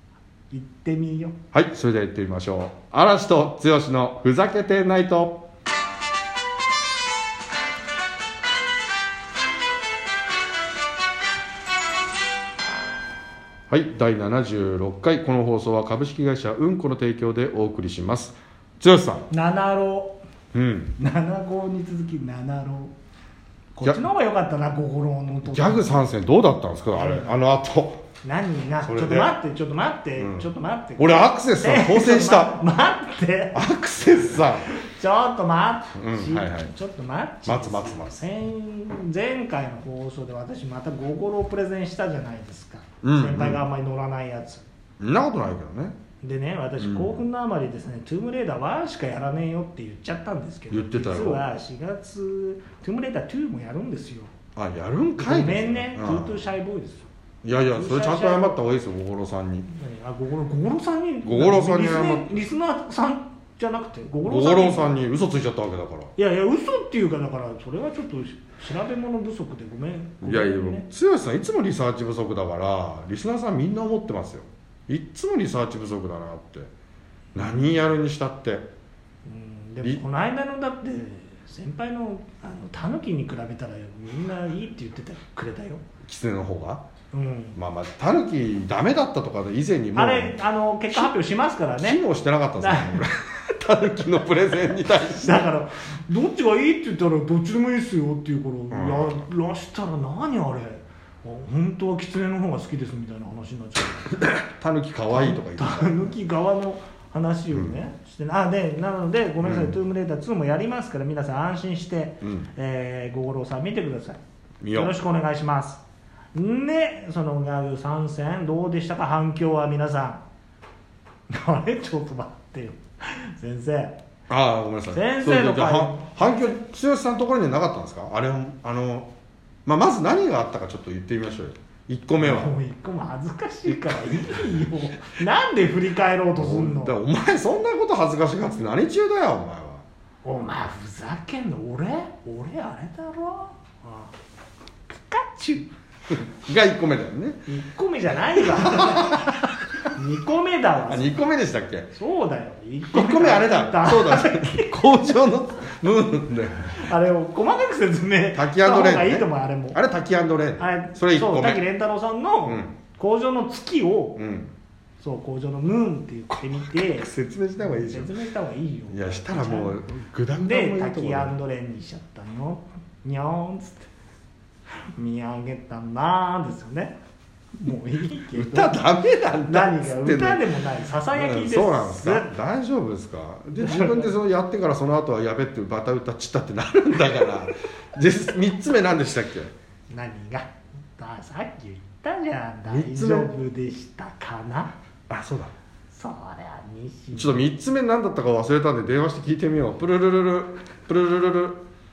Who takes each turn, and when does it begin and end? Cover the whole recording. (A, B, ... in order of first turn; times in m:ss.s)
0:00.5-0:01.4 A
0:01.5-0:05.5 B
0:13.7-0:19.3 B
0:19.3-0:20.2 A
0:20.5-0:20.9 B
0:21.0-0:22.9 A
0:23.8-0:25.9 A
0:25.4-0:28.0 B
0:26.9-0:27.3 A
0:28.2-0:33.6 A
0:28.8-0:29.4 B
0:30.2-0:32.6 B
0:33.5-0:34.7 B
0:34.6-0:44.6 A
0:36.0-0:36.7 B
0:37.5-0:38.2 B
0:43.0-0:43.6 B
0:45.0-0:46.0 B
0:46.2-0:54.3 A
0:46.8-0:47.2 B
0:50.7-0:51.4 B
0:54.6-0:56.4 B
0:55.2-0:57.1 A
0:57.4-0:59.7 B
0:57.7-0:58.6 A
0:59.7-1:04.9 A
1:01.2-1:02.4 B
1:04.2-1:06.1 B
1:06.2-1:10.9 A
1:10.2-1:16.7 B
1:17.4-1:18.7 B
1:17.4-1:17.7 A
1:19.2-1:25.9 A
1:26.0-1:26.8 B
1:27.1-1:27.6 A
1:27.6-1:30.4 B
1:30.0-1:32.0 A
1:31.8-1:35.5 B
1:32.6-1:33.0 A
1:35.1-1:44.2 A
1:38.7-1:39.3 B
1:44.3-1:46.1 B
1:45.1-1:54.2 A
1:47.5-1:47.8 B
1:49.4-1:49.8 B
1:52.2-1:52.5 B
1:54.6-1:55.0 B
1:54.7-1:55.8 A
1:56.3-2:00.2 A
2:01.3-2:04.0 A
2:04.3-2:09.1 B
2:04.9-2:06.6 A
2:09.7-2:12.5 B
2:12.2-2:17.0 A
2:13.7-2:14.7 B
2:16.4-2:19.8 B
2:20.2-2:24.1 A
2:24.9-2:25.7 A
2:26.1-2:27.4 B
2:27.5-2:31.1 A
2:28.6-2:29.3 B
2:30.9-2:31.9 B
2:31.9-2:34.7 A
2:32.9-2:36.8 B
2:36.7-2:39.8 A
2:38.3-2:41.6 B
2:40.6-2:44.2 A
2:42.4-2:42.8 B
2:44.2-2:44.5 B
2:45.0-2:49.8 A
2:46.8-2:48.1 B
2:48.9-2:51.3 B
2:50.4-2:53.9 A
2:55.0-2:57.0 A
2:57.6-2:58.8 A
2:58.3-3:00.4 B
2:59.5-3:02.3 A
3:01.1-3:09.5 B
3:03.5-3:04.1 A
3:09.9-3:14.7 A
3:12.7-3:13.3 B
3:15.1-3:15.5 B
3:15.9-3:17.4 A
3:17.1-3:21.6 B